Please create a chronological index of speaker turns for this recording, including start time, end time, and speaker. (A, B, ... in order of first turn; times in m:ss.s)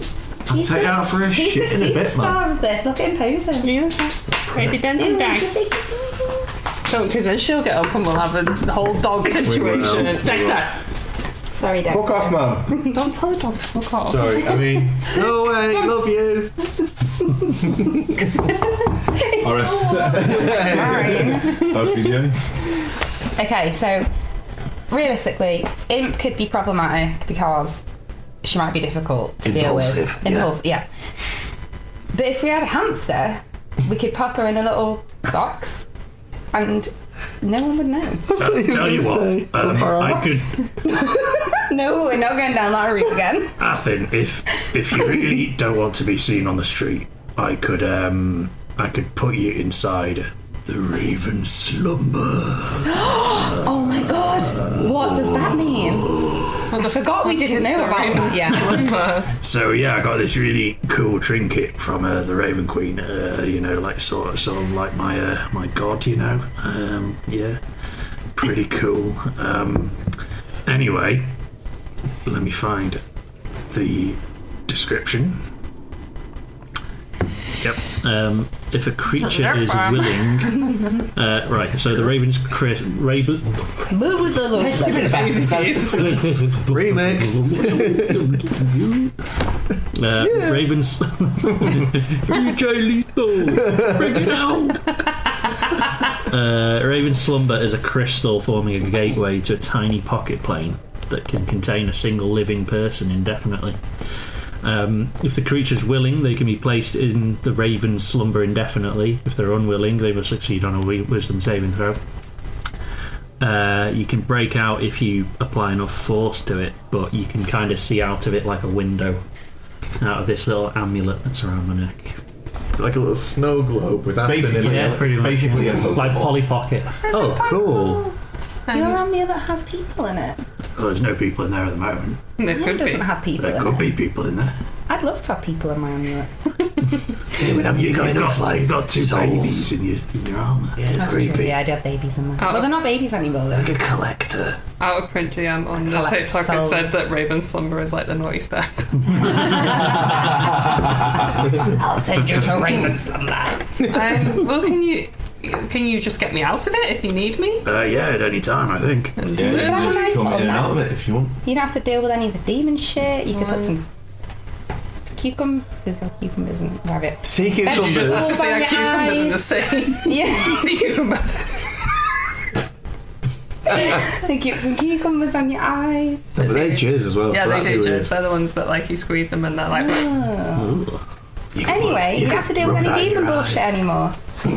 0:00.5-0:02.4 A
0:00.5-0:03.7 B
0:03.6-0:05.6 C
0:04.9-0:06.4 B
0:06.8-0:10.7 C
0:09.3-0:10.6 A
0:11.5-0:13.0 B
0:11.9-0:12.9 A
0:12.9-0:14.8 C
0:14.0-0:16.7 A
0:19.1-0:21.8 B
0:19.4-0:22.5 D
0:20.2-0:21.4 A
0:23.4-0:24.1 B
0:24.9-0:27.8 B
0:28.4-0:30.8 B
0:29.4-0:30.5 E
0:32.1-0:35.9 B
0:36.5-0:38.3 B
0:38.3-0:40.6 A
0:38.3-0:40.7 F
0:40.9-0:43.6 B
0:43.6-0:52.9 F
0:52.8-0:58.9 B
0:54.6-0:55.5 F
0:56.7-0:59.3 C
0:58.6-1:07.6 F
1:08.3-1:10.1 F
1:10.6-1:11.3 F
1:12.2-1:13.0 F
1:13.7-1:15.4 F
1:17.6-1:24.1 F
1:19.2-1:20.7 C
1:23.9-1:25.2 B
1:24.5-1:26.3 D
1:24.7-1:26.2 C
1:26.0-1:29.2 F
1:26.6-1:28.5 A
1:29.9-1:35.0 F
1:30.2-1:30.8 A
1:33.7-1:34.3 A
1:36.1-1:52.0 F
1:53.4-1:59.2 F
2:00.0-2:02.2 F
2:02.8-2:05.1 A
2:04.2-2:06.4 D
2:04.6-2:07.1 F
2:07.0-2:08.2 B
2:07.1-2:08.1 A
2:08.7-2:09.0 C
2:08.7-2:10.4 B
2:10.8-2:12.2 F
2:12.4-2:13.1 C
2:12.4-2:13.9 B
2:13.4-2:14.5 F
2:14.9-2:16.3 B
2:17.3-2:19.7 E
2:17.6-2:20.8 F
2:20.8-2:21.6 E
2:20.9-2:23.8 B
2:22.4-2:22.8 C
2:23.5-2:24.6 E
2:24.8-2:30.4 C
2:25.7-2:27.0 B
2:31.6-2:33.8 B
2:33.9-2:37.6 C
2:37.6-2:39.4 F
2:39.2-2:40.3 C
2:39.3-2:41.4 D
2:39.4-2:40.8 B
2:41.4-2:43.8 B
2:43.3-2:43.7 C
2:45.1-2:51.0 B
2:47.2-2:48.4 A
2:47.6-2:51.8 C
2:53.7-2:56.6 B
2:56.4-2:58.1 A
2:56.4-3:00.2 C
2:59.7-3:00.7 B
3:00.6-3:01.0 F
3:01.5-3:03.8 E
3:01.6-3:04.2 B